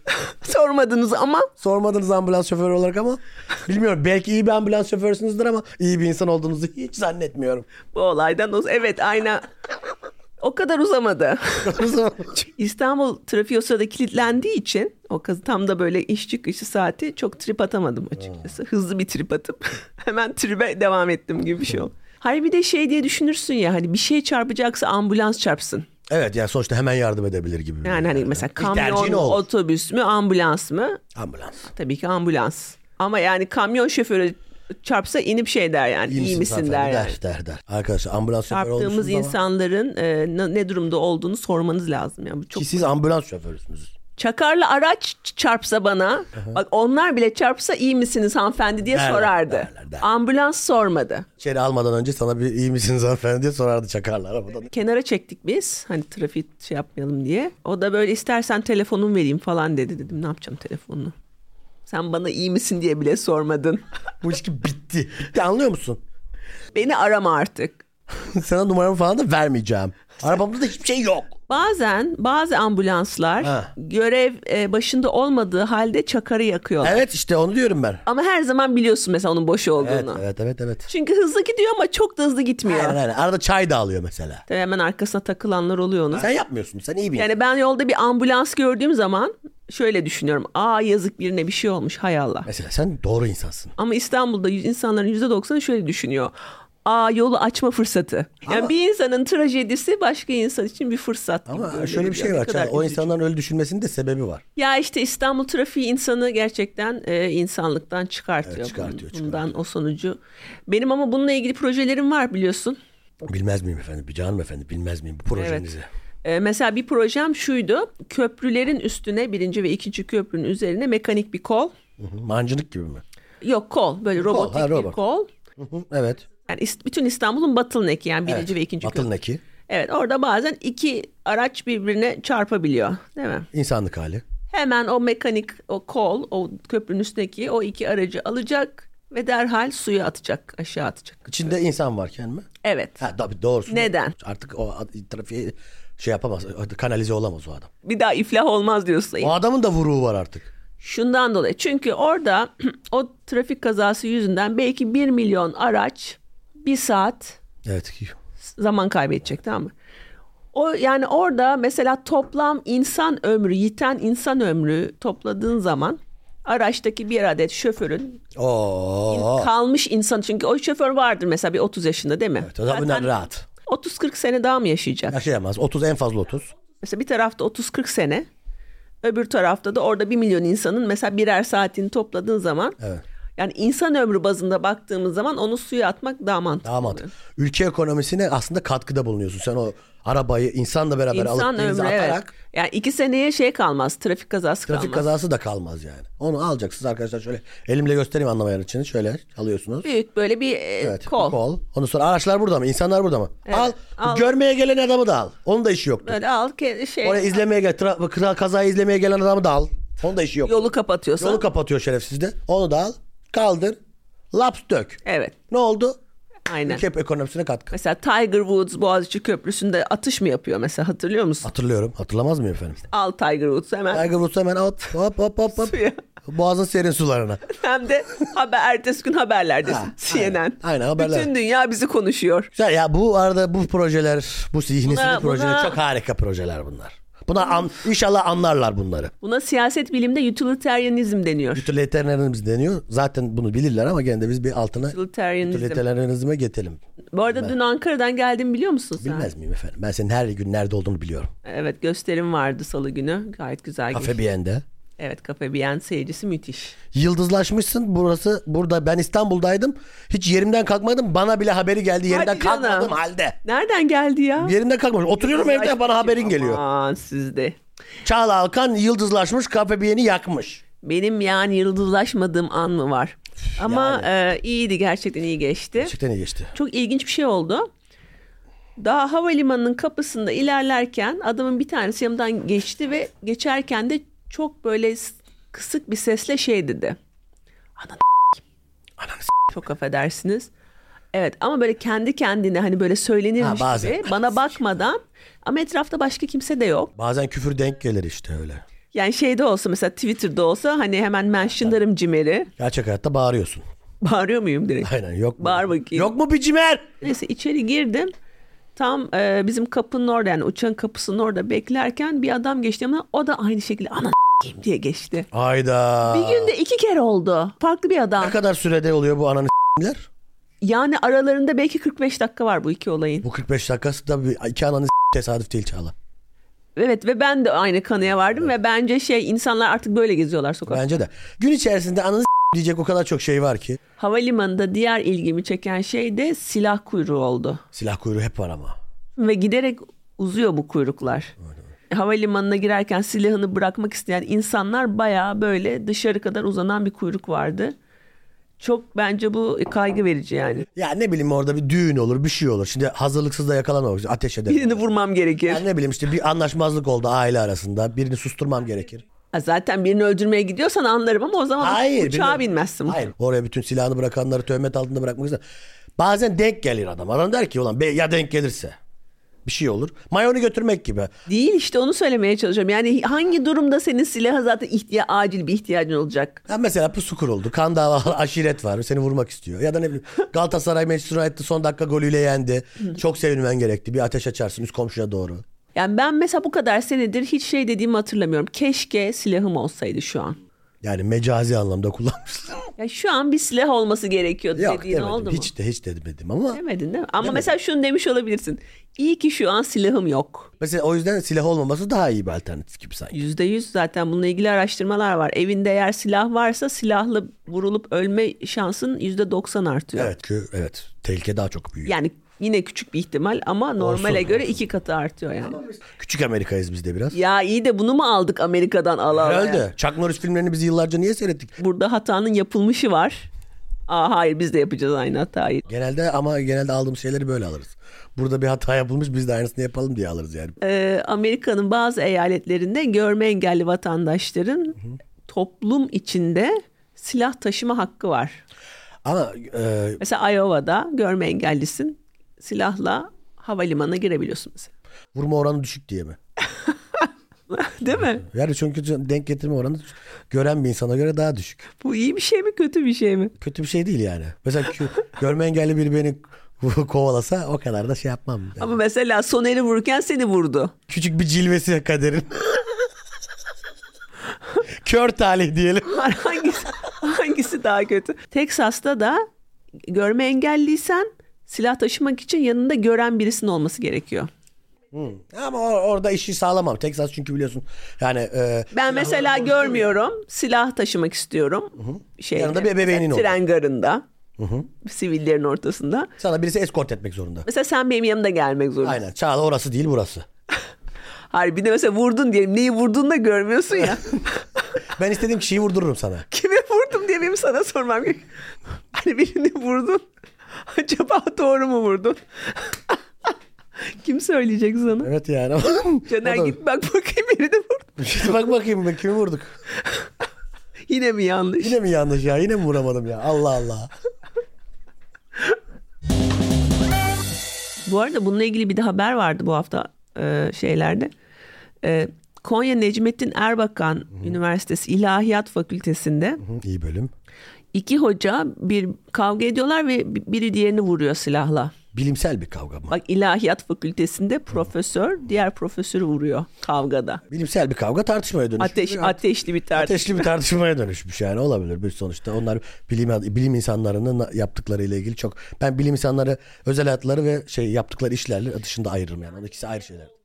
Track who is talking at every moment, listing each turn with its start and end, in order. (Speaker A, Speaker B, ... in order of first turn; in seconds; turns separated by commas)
Speaker A: 0.2-1.5, Speaker B: 1.6-7.7, Speaker A: 7.9-9.4, Speaker A: 10.4-11.7, Speaker B: 11.6-12.4, Speaker A: 12.5-25.9, Speaker B: 26.1-29.5, Speaker A: 27.8-31.0, Speaker B: 31.1-31.7, Speaker A: 31.7-37.1, Speaker B: 36.1-39.4, Speaker A: 38.5-42.9, Speaker B: 42.5-43.9, Speaker A: 44.2-51.2, Speaker B: 48.9-50.1, Speaker B: 51.4-54.7, Speaker A: 54.7-61.1, Speaker A: 61.9-63.8, Speaker B: 64.2-66.0, Speaker A: 66.7-67.8, Speaker B: 68.2-71.3, Speaker A: 71.5-77.0, Speaker B: 73.4-73.7, Speaker B: 76.8-78.0, Speaker A: 78.0-80.2, Speaker B: 79.8-80.9, Speaker A: 80.9-83.0, Speaker B: 82.6-84.4, Speaker A: 84.5-86.2, Speaker B: 86.1-87.3, Speaker A: 87.2-92.5, Speaker B: 92.5-93.7, Speaker A: 93.8-96.3, Speaker A: 96.8-103.1, Speaker B: 98.5-98.7, Speaker B: 101.5-104.4, Speaker A: 104.5-112.8, Speaker B: 108.4-109.6, Speaker B: 113.2-115.9, Speaker A: 115.3-115.7, Speaker A: 116.2-121.7, Speaker B: 122.0-123.0, Speaker A: 123.4-125.3, Speaker B: 124.2-125.0, Speaker B: 125.6-126.2, Speaker A: 126.5-129.1, Speaker B: 128.2-129.4, Speaker A: 129.7-133.5, Speaker B: 133.5-134.2, Speaker A: 134.5-141.3, Speaker B: 141.3-142.5, Speaker A: 142.6-143.0, Speaker B: 143.0-147.7, Speaker A: 143.7-144.1, Speaker A: 147.8-149.3, Speaker B: 149.2-150.5, Speaker A: 150.8-157.4, Speaker B: 157.6-158.2, Speaker A: 158.6-159.7, Speaker A: 160.5-168.2, Speaker B: 168.3-169.5, Speaker A: 169.1-173.1, Speaker B: 172.4-173.4, Speaker A: 173.7-175.2, Speaker B: 175.1-176.5, Speaker A: 176.8-178.3, Speaker A: 179.0-182.8, Speaker A: 183.4-187.1, Speaker B: 186.6-192.3, Speaker A: 191.1-195.1, Speaker B: 194.7-199.9, Speaker A: 199.8-201.4, Speaker B: 200.8-206.2, Speaker A: 203.5-204.3, Speaker A: 206.0-207.4, Speaker B: 207.0-213.8, Speaker A: 210.4-211.4, Speaker B: 214.3-215.0, Speaker A: 215.0-215.3, Speaker B: 215.5-216.0, Speaker A: 216.5-216.8, Speaker B: 216.6-217.7, Speaker A: 217.7-221.5, Speaker B: 221.4-222.8, Speaker A: 222.9-224.1, Speaker B: 223.9-227.4, Speaker A: 225.5-226.0, Speaker A: 227.5-232.5, Speaker B: 229.6-231.3, Speaker B: 232.5-239.1, Speaker A: 234.8-235.8, Speaker A: 239.2-241.7, Speaker B: 241.5-247.5, Speaker A: 244.9-245.8, Speaker A: 247.1-249.3, Speaker B: 249.0-251.3, Speaker A: 251.4-254.2, Speaker B: 253.9-254.6, Speaker A: 255.0-256.7, Speaker B: 256.9-263.4, Speaker A: 262.1-264.5, Speaker B: 264.4-266.6, Speaker A: 265.2-267.6, Speaker B: 268.0-270.6, Speaker A: 270.8-275.9, Speaker B: 273.6-274.1, Speaker B: 275.8-276.5, Speaker A: 276.5-277.7, Speaker A: 278.8-287.0, Speaker A: 287.8-288.4, Speaker B: 289.0-289.3, Speaker A: 289.5-290.5, Speaker A: 291.1-296.9, Speaker B: 293.4-294.6, Speaker B: 296.9-298.6, Speaker A: 298.9-302.5, Speaker B: 302.6-303.6, Speaker A: 304.0-306.1, Speaker B: 304.8-306.9, Speaker A: 307.0-308.1, Speaker A: 308.8-315.3, Speaker B: 315.3-316.5, Speaker A: 316.1-318.4, Speaker B: 318.2-320.1, Speaker A: 320.6-323.2, Speaker B: 323.2-325.9, Speaker A: 326.8-330.9, Speaker B: 330.7-333.8, Speaker A: 334.0-337.6, Speaker B: 337.7-338.8, Speaker A: 339.2-341.3, Speaker A: 341.9-347.7, Speaker A: 348.6-350.6, Speaker B: 350.7-354.8, Speaker A: 354.5-355.6, Speaker B: 355.5-359.0, Speaker A: 359.3-363.0, Speaker B: 361.6-365.4, Speaker B: 366.0-368.8, Speaker B: 369.4-371.1, Speaker A: 371.3-376.4, Speaker B: 376.5-385.4, Speaker A: 385.7-390.4, Speaker B: 390.8-392.7, Speaker A: 392.8-395.5, Speaker B: 394.5-396.6, Speaker A: 396.5-400.5, Speaker B: 397.2-397.5, Speaker B: 400.6-403.1, Speaker A: 403.1-410.1, Speaker B: 409.9-411.9, Speaker A: 411.9-415.6, Speaker B: 413.8-414.6, Speaker B: 415.4-417.2, Speaker A: 417.1-419.6, Speaker B: 419.1-421.5, Speaker A: 421.6-423.3, Speaker A: 423.9-425.6, Speaker B: 425.7-430.6, Speaker A: 430.6-438.4, Speaker B: 439.0-440.0, Speaker A: 440.0-444.7, Speaker B: 445.1-446.2, Speaker A: 446.7-448.2, Speaker B: 448.1-451.6, Speaker A: 451.8-453.3, Speaker B: 453.4-458.7, Speaker A: 458.6-460.7, Speaker B: 460.9-462.7, Speaker B: 464.8-466.2, Speaker A: 465.9-469.2, Speaker A: 469.9-474.3, Speaker B: 474.9-479.9, Speaker A: 478.7-484.0, Speaker B: 481.8-483.3, Speaker B: 484.4-484.7, Speaker A: 484.8-486.1, Speaker B: 486.2-487.5, Speaker A: 487.4-489.0, Speaker B: 488.8-490.2, Speaker A: 491.3-494.4, Speaker B: 494.9-496.2, Speaker A: 496.3-498.3, Speaker A: 498.9-500.0, Speaker A: 500.6-503.0, Speaker A: 503.9-505.1, Speaker B: 505.0-506.6, Speaker A: 506.1-508.0, Speaker B: 508.0-509.6, Speaker A: 510.9-511.8, Speaker B: 511.6-513.9, Speaker A: 517.9-521.1, Speaker A: 521.8-526.4, Speaker B: 526.4-527.1, Speaker A: 527.7-531.7, Speaker B: 531.9-533.0, Speaker A: 532.9-537.2, Speaker B: 537.3-550.1, Speaker A: 538.6-540.3